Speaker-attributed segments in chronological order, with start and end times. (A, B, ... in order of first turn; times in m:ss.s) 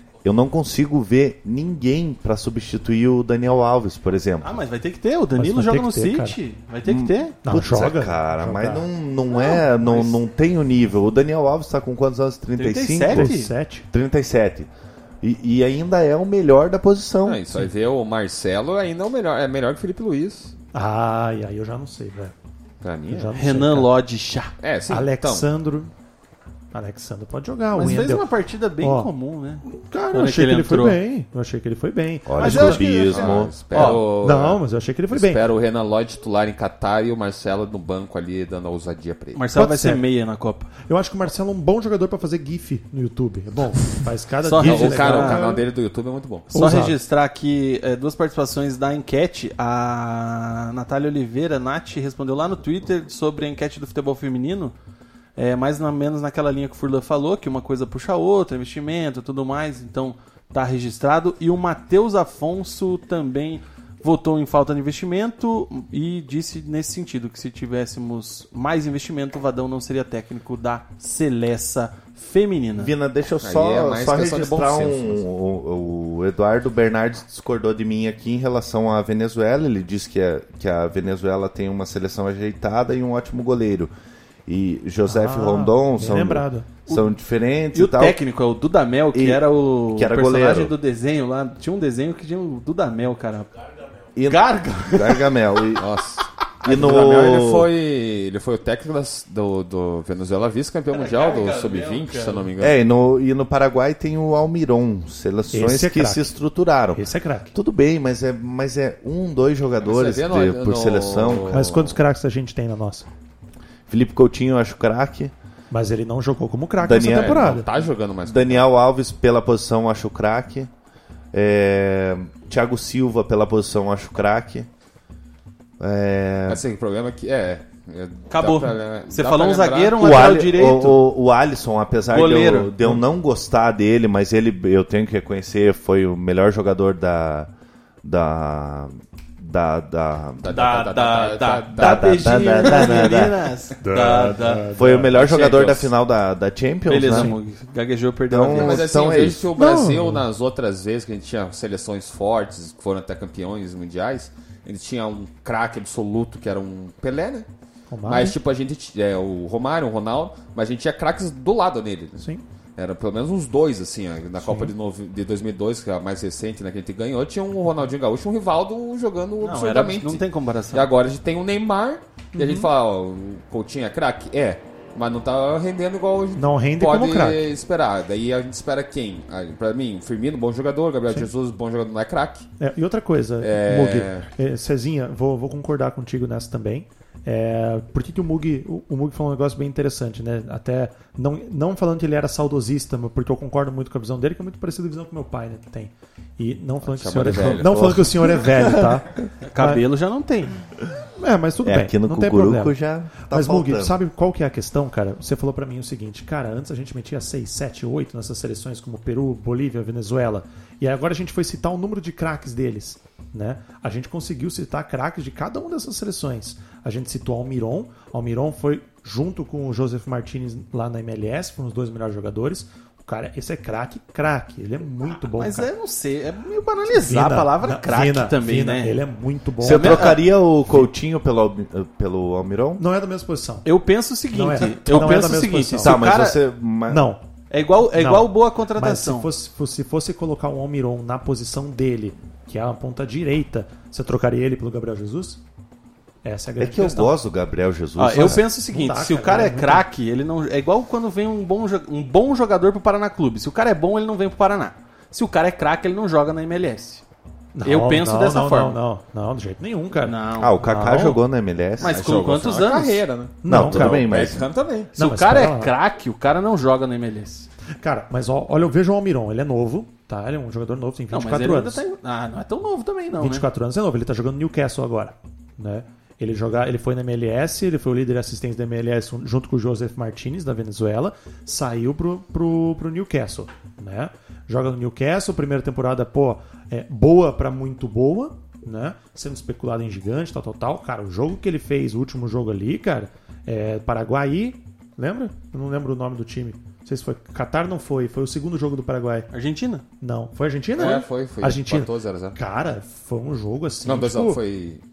0:00.2-0:04.5 A
0:04.4-0:07.4 B
0:05.4-0:06.4 C
0:06.8-0:13.4 A
0:07.4-0:08.9 C
0:09.7-0:10.2 B
0:12.6-0:13.5 B
0:13.0-0:13.8 C
0:13.9-0:14.7 A
0:15.2-0:17.6 A
0:17.2-0:20.5 D
0:20.7-0:22.3 C
0:22.8-0:23.3 D
0:23.1-0:23.9 C
0:23.3-0:24.5 B
0:24.6-0:25.5 D
0:24.9-0:25.9 C
0:26.7-0:28.2 C
0:27.7-0:31.0 B
0:28.8-0:29.1 C
0:29.6-0:35.4 C
0:32.3-0:33.6 A
0:32.4-0:34.0 B
0:33.1-0:39.4 D
0:39.3-0:40.7 B
0:39.5-0:40.0 C
0:40.8-0:45.6 C
0:44.4-0:45.4 B
0:44.6-0:46.5 D
0:46.5-0:47.0 C
0:46.5-0:54.7 B
0:55.4-1:12.9 B
1:12.8-1:23.9 A
1:13.4-1:15.2 D
1:24.5-1:28.2 A
1:25.0-1:26.7 C
1:27.7-1:33.5 B
1:29.1-1:30.7 A
1:34.1-1:35.9 A
1:34.2-1:35.4 B
1:35.8-1:42.8 D
1:36.6-1:37.7 A
1:40.9-1:42.5 B
1:42.6-1:51.7 A
1:45.5-1:46.3 C
1:46.9-1:47.5 C
1:49.8-1:52.0 D
1:51.5-1:53.1 C
1:53.9-1:55.3 A
1:55.7-1:57.7 C
1:56.8-1:57.6 A
1:56.9-1:58.6 D
1:58.2-2:00.7 A
2:01.3-2:04.7 A
2:05.8-2:06.6 A
2:06.5-2:10.3 D
2:08.3-2:11.0 B
2:10.0-2:17.5 A
2:12.1-2:13.0 B
2:18.0-2:20.5 A
2:20.4-2:23.0 D
2:20.5-2:25.2 B
2:21.7-2:23.4 A
2:24.4-2:25.9 D
2:24.4-2:27.3 A
2:26.8-2:28.9 B
2:28.3-2:29.5 A
2:28.5-2:37.5 D
2:29.6-2:30.2 C
2:37.9-2:38.4 C
2:38.0-3:02.5 D
2:42.2-2:42.4 C
2:44.4-2:44.7 C
2:49.4-2:50.8 B
2:52.3-2:52.7 C
2:56.4-2:57.4 C
3:02.6-3:19.8 C
3:03.4-3:04.3 D
3:16.8-3:18.5 D
3:19.4-3:20.6 B
3:21.2-3:22.7 C
3:21.6-3:24.0 A
3:23.3-3:45.7 C
3:45.4-3:49.0 B
3:46.9-3:50.2 C
3:49.6-3:52.8 A
3:49.6-3:50.2 B
3:52.8-3:53.7 C
3:53.6-3:56.4 B
3:54.3-3:56.0 C
3:55.8-3:57.0 A
3:56.9-3:57.2 C
3:57.5-3:59.3 B
3:57.9-4:05.4 C
4:06.2-4:07.1 C
4:06.6-4:08.4 A
4:08.0-4:17.0 B
4:08.7-4:09.8 C
4:17.5-4:21.1 C
4:17.6-4:18.8 B
4:20.0-4:21.2 B
4:20.4-4:22.0 A
4:21.8-4:23.0 B
4:21.8-4:24.9 D
4:23.4-4:24.1 C
4:23.4-4:24.5 A
4:24.9-4:27.5 B
4:25.0-4:25.7 C
4:27.8-4:31.8 C
4:31.1-4:33.4 B
4:33.2-4:59.3 C
4:59.3-4:59.8 B
5:00.0-5:04.4 C
5:00.7-5:02.4 D
5:03.8-5:04.8 D